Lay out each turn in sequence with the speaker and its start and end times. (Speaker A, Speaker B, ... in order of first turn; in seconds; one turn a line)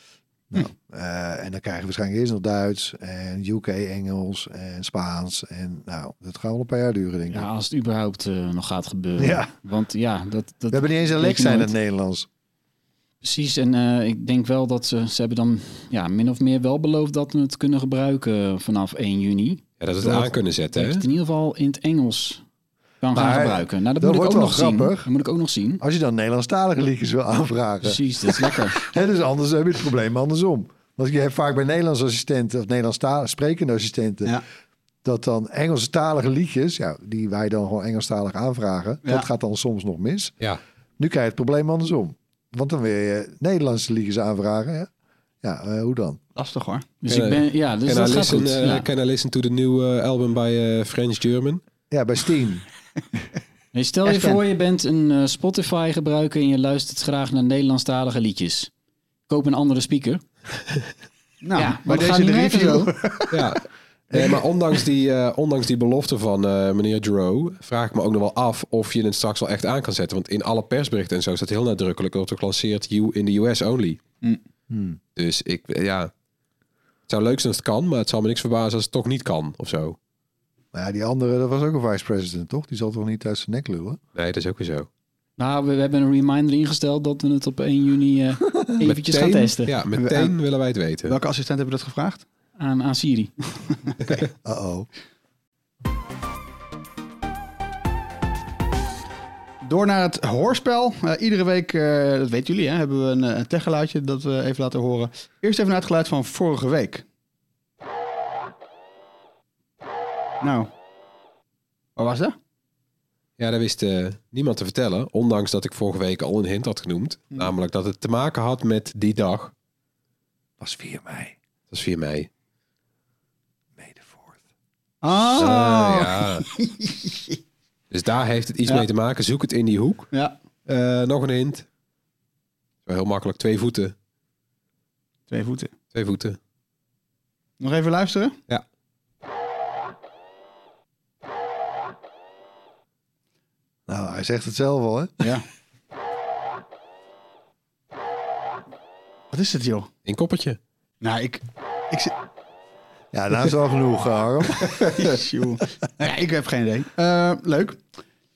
Speaker A: 0.5-7.5
Speaker B: 7.3-11.7
Speaker A: 9.2-9.5
Speaker A: 10.7-12.3
Speaker B: 13.2-22.4
Speaker C: 19.8-21.0
Speaker B: 23.0-25.8
Speaker A: 23.1-25.1
Speaker A: 25.8-34.4
Speaker B: 27.8-28.8
Speaker A: 35.0-40.3
Speaker A: 41.0-44.9
Speaker A: 45.4-46.2
Speaker D: 46.4-46.9
Speaker B: 47.0-48.9
Speaker C: 47.1-51.6
Speaker A: 51.9-52.6
Speaker B: 53.7-58.7
Speaker D: 54.0-54.4
Speaker B: 59.3-60.2
Speaker D: 61.4-63.5
Speaker B: 61.6-62.9
Speaker C: 63.3-74.0
Speaker A: 74.7-75.0
Speaker C: 75.2-76.1
Speaker C: 77.1-80.0
Speaker A: 80.7-84.0
Speaker C: 84.2-84.9
Speaker B: 85.4-89.8
Speaker C: 88.8-91.2
Speaker D: 89.9-90.4
Speaker D: 91.0-92.2
Speaker B: 92.6-93.3
Speaker A: 94.4-94.9
Speaker D: 99.6-107.0
Speaker D: 110.4-110.7
Speaker D: 112.0-112.3
Speaker C: 113.4-119.5
Speaker A: 120.6-121.4
Speaker C: 121.7-122.3
Speaker A: 123.8-124.4
Speaker D: 125.0-127.4
Speaker C: 125.3-126.5
Speaker C: 127.9-130.1
Speaker C: 130.7-131.7
Speaker C: 132.9-133.9
Speaker D: 135.3-135.7
Speaker C: 135.9-136.4
Speaker D: 137.6-138.4
Speaker A: 143.9-145.3
Speaker D: 145.2-145.4
Speaker D: 149.3-149.9
Speaker C: 150.1-150.6
Speaker D: 151.0-152.1
Speaker A: 153.1-154.9
Speaker D: 154.7-157.8